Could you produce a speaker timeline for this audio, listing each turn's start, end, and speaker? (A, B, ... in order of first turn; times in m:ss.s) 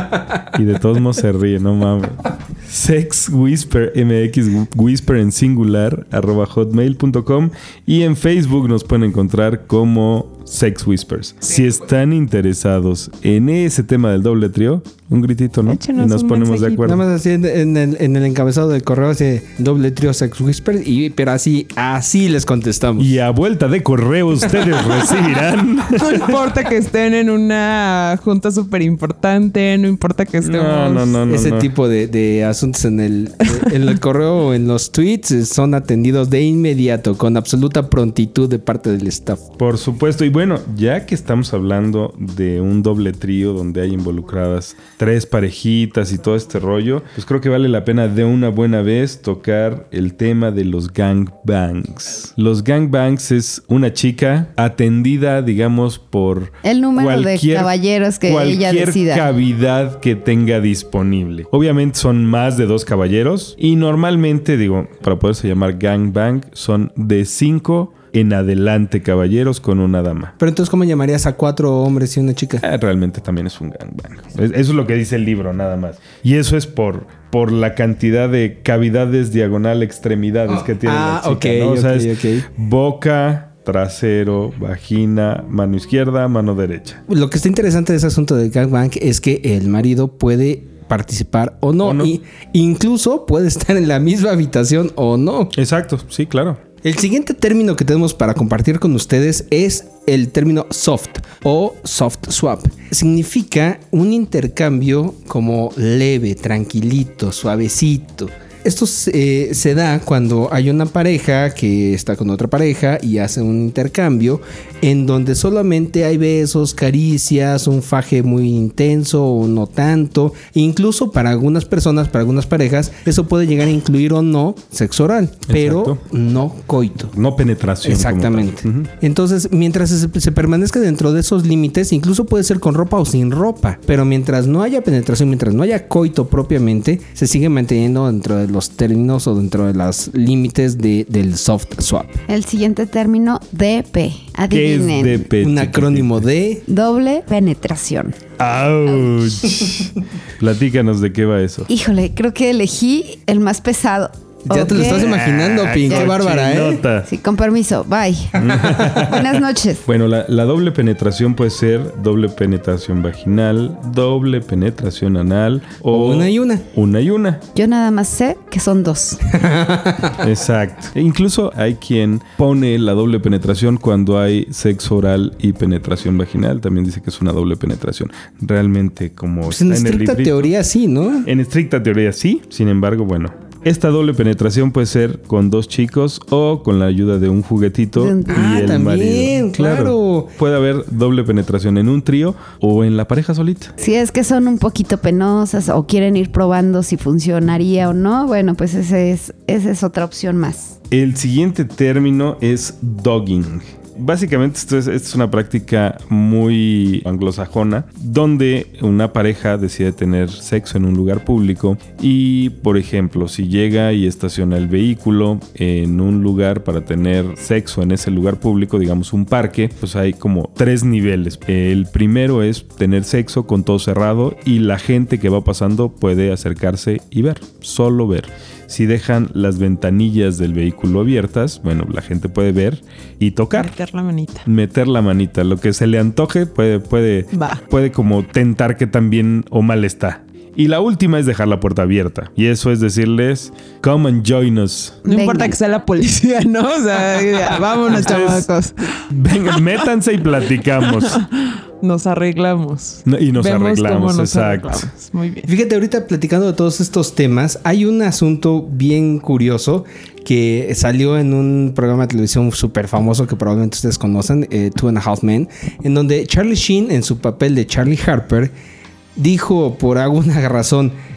0:00.5-0:17.0 A
0:15.6-0:17.0 B
0:16.8-0:23.2 C
0:23.0-0:26.4 A
0:25.9-0:31.2 B
0:30.4-0:31.7 A
0:31.3-0:39.5 C
0:39.6-1:10.3 A
0:56.6-0:59.3 D
1:10.4-1:12.6 C
1:12.6-1:27.0 A
1:20.5-1:22.5 C
1:27.1-1:35.5 C
1:31.8-1:32.1 A
1:35.6-1:36.6 A
1:36.8-2:07.1 C
2:05.5-2:06.0 A
2:07.1-2:08.9 A
2:07.8-2:22.2 C
2:22.3-2:25.3 D
2:24.5-2:26.2 A
2:25.4-2:26.6 C
2:26.6-2:28.2 D
2:28.4-2:31.7 A
2:31.7-2:35.1 D
2:34.5-2:36.8 C
2:34.7-2:37.1 A
2:37.1-2:39.8 D
2:38.4-2:47.4 A
2:45.9-2:46.6 C
2:47.6-2:49.2 D
2:49.3-2:50.2 C
2:50.2-3:00.5 A
2:59.5-3:01.3 C
3:01.2-3:13.7 A
3:07.9-3:08.6 D
3:08.3-3:10.3 C
3:13.8-3:20.8 D
3:20.9-3:53.7 A
3:53.5-3:54.4 B
3:54.4-4:05.0 A
3:57.3-3:57.6 B
4:05.0-4:09.8 B
4:05.1-4:05.6 D
4:07.9-4:08.5 A
4:09.1-4:11.2 A
4:10.8-4:15.5 B
4:13.1-4:14.9 A
4:15.5-4:28.5 C
4:29.2-4:30.9 C